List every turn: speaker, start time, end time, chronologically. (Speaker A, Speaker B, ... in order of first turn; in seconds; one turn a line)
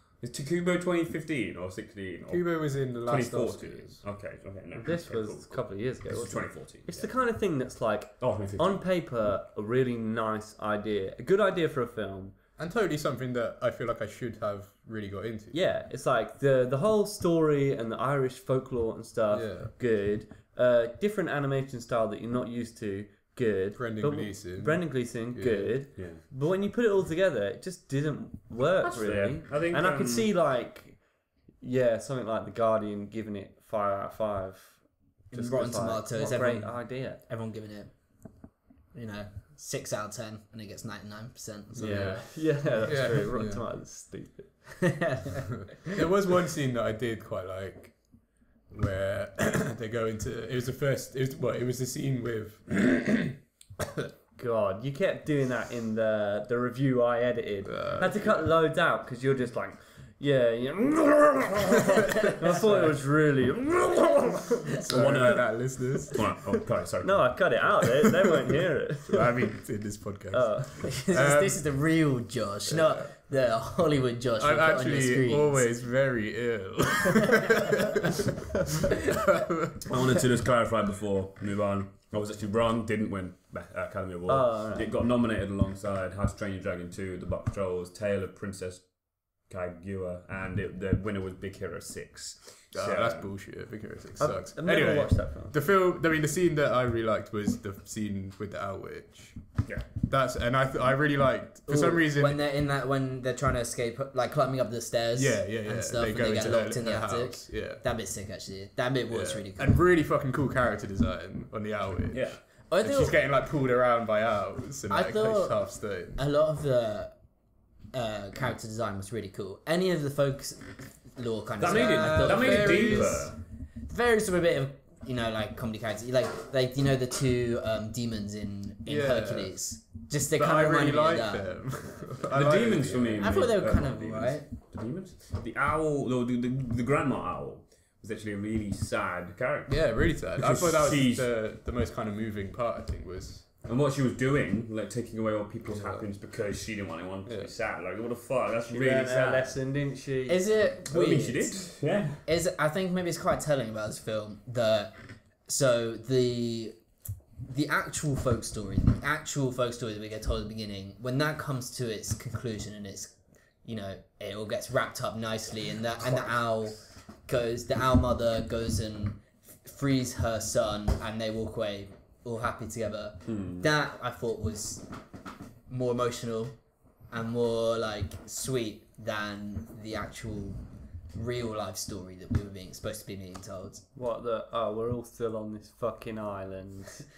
Speaker A: 0.2-2.5
Speaker B: 2.3-4.0
Speaker A: 3.0-7.1
Speaker C: 4.8-12.3
Speaker A: 8.2-8.8
Speaker B: 12.6-15.6
Speaker C: 15.5-31.0
Speaker B: 19.3-19.7
Speaker B: 23.8-25.8
Speaker A: 26.0-26.2
Speaker A: 28.8-30.3
Speaker C: 31.6-37.2
Speaker D: 35.3-37.9
Speaker D: 38.9-42.2
Speaker C: 41.8-44.6
Speaker B: 41.8-42.2
Speaker B: 42.9-43.6
Speaker D: 44.8-45.9
Speaker B: 45.8-48.0
Speaker B: 48.7-54.1
Speaker C: 54.4-65.4
Speaker B: 57.6-58.5
Speaker B: 62.2-62.9
Speaker B: 64.8-66.2
Speaker A: 64.9-65.6
Speaker A: 66.1-67.9
Speaker C: 67.0-69.5
Speaker B: 69.1-71.6
Speaker C: 70.3-70.9
Speaker D: 70.8-75.7
Speaker B: 72.7-73.1
Speaker B: 74.4-80.1
Speaker D: 77.2-77.7
Speaker A: 79.8-88.8
Speaker C: 84.3-84.9
Speaker A: 89.5-93.3
Speaker B: 92.7-99.4
Speaker C: 94.2-95.5
Speaker B: 100.0-102.4
Speaker D: 101.7-109.8
Speaker B: 105.2-107.8
Speaker B: 109.1-116.2
Speaker A: 112.1-112.4
Speaker D: 112.7-113.2
Speaker D: 114.9-117.2
Speaker D: 117.9-123.3
Speaker A: 121.6-123.4
Speaker B: 121.7-123.3
Speaker D: 123.9-131.5
Speaker B: 128.9-129.6
Speaker B: 130.3-133.3
Speaker A: 132.3-139.7
Speaker D: 133.2-134.5
Speaker B: 139.7-143.5
Speaker A: 140.4-141.3
Speaker A: 143.7-149.6
Speaker B: 145.7-146.1
Speaker B: 147.3-147.5
Speaker C: 148.7-150.7
Speaker D: 150.3-151.7
Speaker A: 150.8-152.2
Speaker D: 152.2-154.9
Speaker D: 155.5-156.8
Speaker D: 157.5-174.9
Speaker A: 166.0-166.4
Speaker A: 173.3-173.7
Speaker D: 175.7-176.6
Speaker D: 177.1-180.6
Speaker D: 181.1-183.8
Speaker C: 183.9-187.1